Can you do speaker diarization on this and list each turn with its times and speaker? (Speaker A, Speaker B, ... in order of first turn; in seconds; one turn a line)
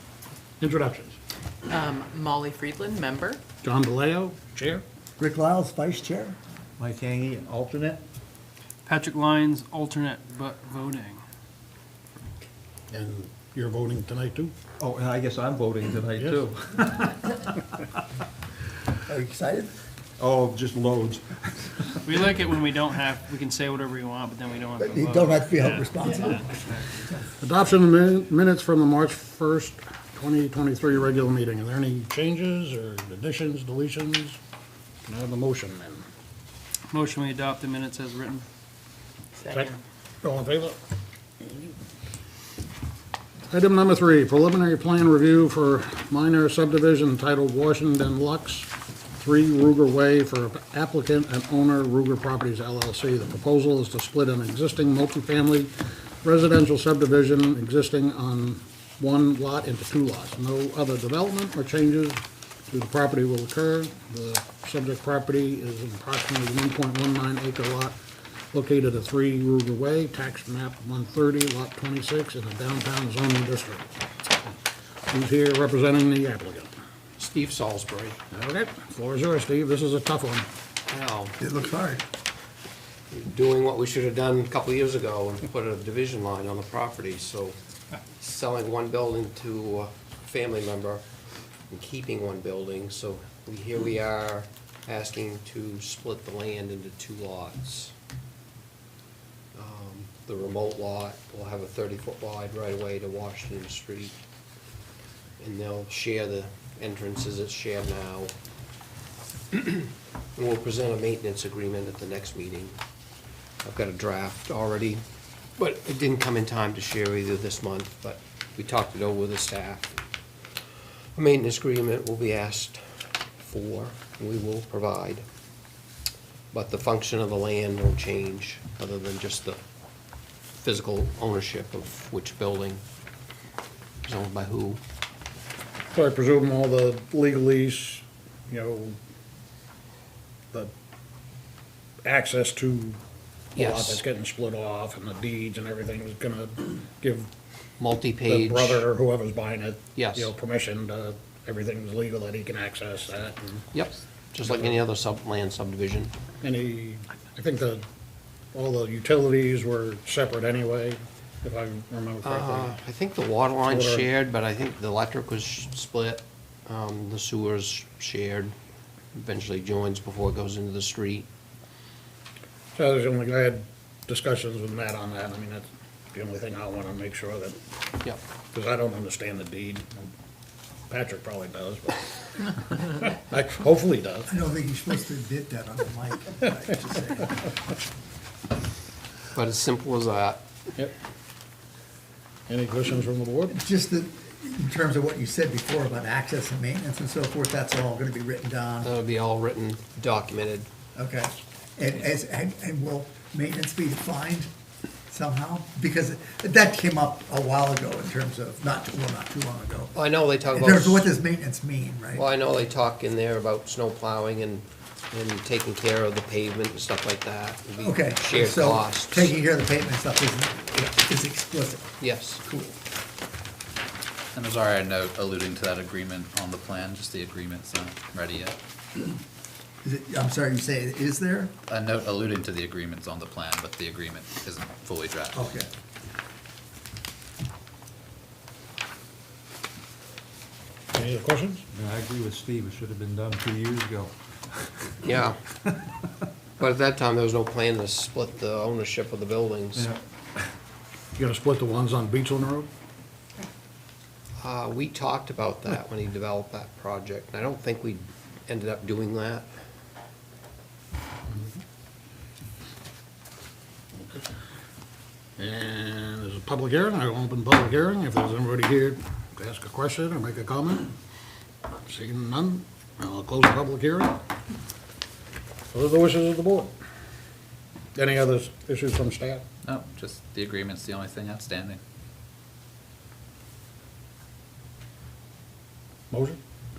Speaker A: 0.6-1.2
Speaker B: 1.7-3.4
Speaker A: 3.6-4.8
Speaker C: 5.2-6.4
Speaker D: 6.8-8.0
Speaker E: 8.8-11.2
Speaker A: 12.9-14.5
Speaker D: 14.8-17.4
Speaker C: 19.1-19.7
Speaker D: 20.2-22.2
Speaker E: 22.0-27.1
Speaker C: 24.8-26.4
Speaker A: 27.4-34.4
Speaker A: 35.0-36.0
Speaker E: 36.9-38.4
Speaker B: 39.4-39.7
Speaker A: 40.2-40.8
Speaker A: 41.4-41.7
Speaker A: 43.5-55.7
Speaker A: 56.2-68.0
Speaker A: 68.5-73.9
Speaker A: 75.1-76.7
Speaker F: 77.2-78.2
Speaker A: 78.3-80.5
Speaker F: 80.9-81.4
Speaker C: 81.4-82.0
Speaker F: 83.1-87.5
Speaker F: 88.2-91.0
Speaker F: 91.7-97.9
Speaker F: 99.5-104.2
Speaker F: 105.4-108.3
Speaker F: 109.5-112.7
Speaker F: 113.6-115.0
Speaker F: 115.6-120.0
Speaker F: 121.2-122.8
Speaker F: 123.4-125.2
Speaker F: 126.5-129.6
Speaker F: 130.6-132.8
Speaker F: 134.0-134.8
Speaker A: 135.9-138.9
Speaker A: 142.0-143.0
Speaker F: 143.5-144.0
Speaker A: 143.6-147.3
Speaker F: 147.8-148.8
Speaker A: 148.2-153.7
Speaker F: 149.9-150.3
Speaker F: 153.7-156.1
Speaker A: 154.4-154.8
Speaker A: 156.4-157.8
Speaker A: 158.5-162.7
Speaker F: 162.2-168.5
Speaker A: 163.7-164.1
Speaker F: 169.1-171.3
Speaker A: 172.7-177.6
Speaker A: 178.5-180.1
Speaker A: 180.9-184.3
Speaker C: 184.3-187.3
Speaker F: 189.3-190.4
Speaker A: 192.5-193.6
Speaker C: 193.5-198.9
Speaker F: 198.8-200.7
Speaker C: 200.9-204.5
Speaker C: 205.1-212.2
Speaker F: 209.9-211.1
Speaker F: 212.1-219.3
Speaker C: 217.8-221.9
Speaker F: 222.0-222.4
Speaker C: 222.4-222.8
Speaker G: 224.3-228.6
Speaker C: 229.8-231.5
Speaker G: 231.7-235.5
Speaker C: 235.3-235.7
Speaker A: 240.9-241.6
Speaker D: 241.7-244.1
Speaker F: 245.0-245.4
Speaker F: 246.6-249.9
Speaker A: 251.2-252.7
Speaker F: 254.4-259.5
Speaker A: 265.4-270.9
Speaker A: 271.8-274.2
Speaker A: 275.7-276.7
Speaker A: 277.9-279.4
Speaker G: 279.6-281.8
Speaker A: 286.1-286.4